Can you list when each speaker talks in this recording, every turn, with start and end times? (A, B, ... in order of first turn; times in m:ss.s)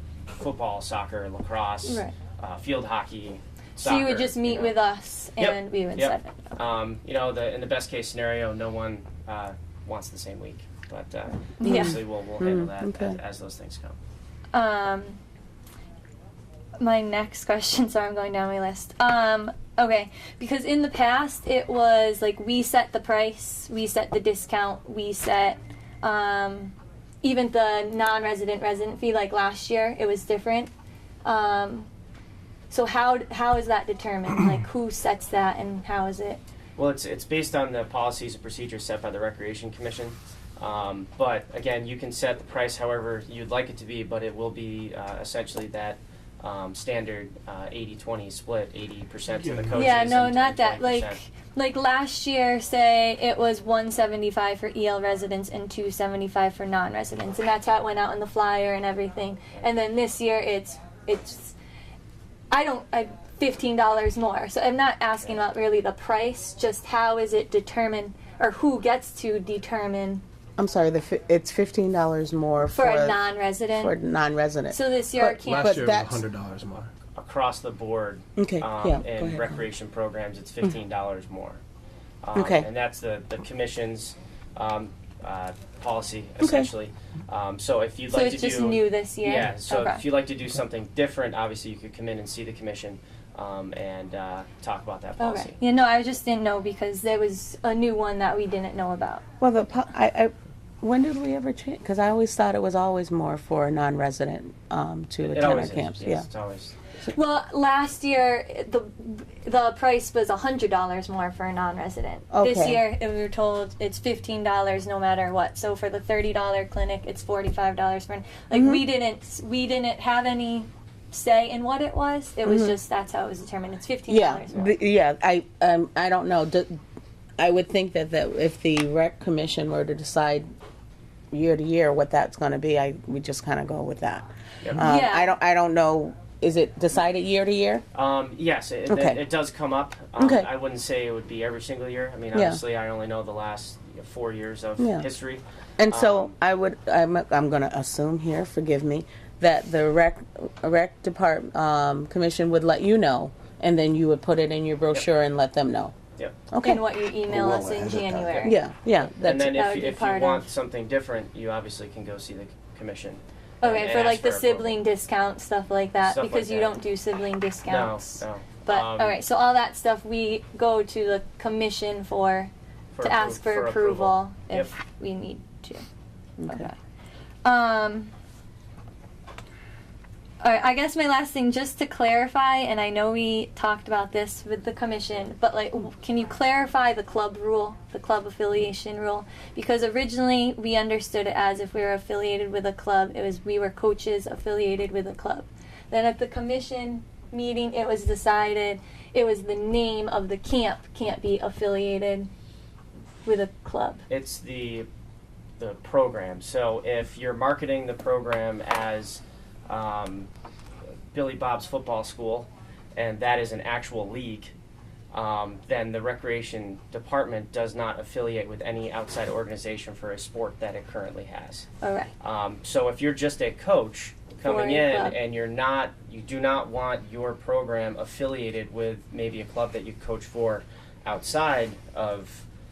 0:00.4-0:04.8 A
0:01.8-0:02.1 B
0:03.8-0:06.6 B
0:05.4-0:14.0 A
0:11.6-0:12.0 B
0:11.6-0:13.2 C
0:14.5-0:15.2 B
0:16.8-0:30.7 B
0:31.2-0:31.9 B
0:32.7-0:36.4 B
0:36.8-0:51.2 A
0:49.4-0:49.8 D
0:49.7-1:01.6 B
1:02.5-1:10.2 B
1:10.6-1:13.2 C
1:12.7-1:14.0 B
1:13.7-1:16.2 C
1:14.7-1:15.8 B
1:15.4-1:16.9 D
1:17.2-1:21.6 A
1:18.4-1:19.6 C
1:22.2-1:35.6 A
1:22.4-1:22.7 C
1:26.4-1:26.7 C
1:28.1-1:30.0 B
1:35.2-1:39.2 B
1:39.4-1:46.3 C
1:45.3-1:46.8 A
1:47.1-2:04.7 B
1:52.3-1:52.8 C
1:58.5-1:58.8 C
2:02.4-2:02.8 C
2:04.1-2:06.8 C
2:07.4-2:10.5 C
2:11.3-2:17.8 C
2:14.8-2:15.4 B
2:17.9-2:26.3 A
2:18.9-2:19.2 C
2:20.2-2:20.5 C
2:22.3-2:22.6 C
2:24.8-2:25.1 C
2:25.8-2:35.9 C
2:36.5-2:36.8 C
2:36.6-2:38.6 B
2:37.3-2:38.4 D
2:38.3-2:44.8 A
2:38.4-2:39.6 C
2:39.5-2:40.5 B
2:43.6-2:55.8 B
2:46.0-2:46.8 A
2:47.7-2:49.2 A
2:53.0-2:54.7 A
2:56.4-2:56.7 C
2:56.5-2:56.8 B
2:57.4-2:58.1 B
3:00.4-3:22.3 B
3:23.2-3:24.0 B
3:24.1-3:24.9 A
3:25.6-3:30.3 A
3:31.1-3:34.5 A
3:35.1-3:41.7 A
3:41.8-3:42.1 B
3:42.2-3:52.5 A
3:44.4-3:45.2 B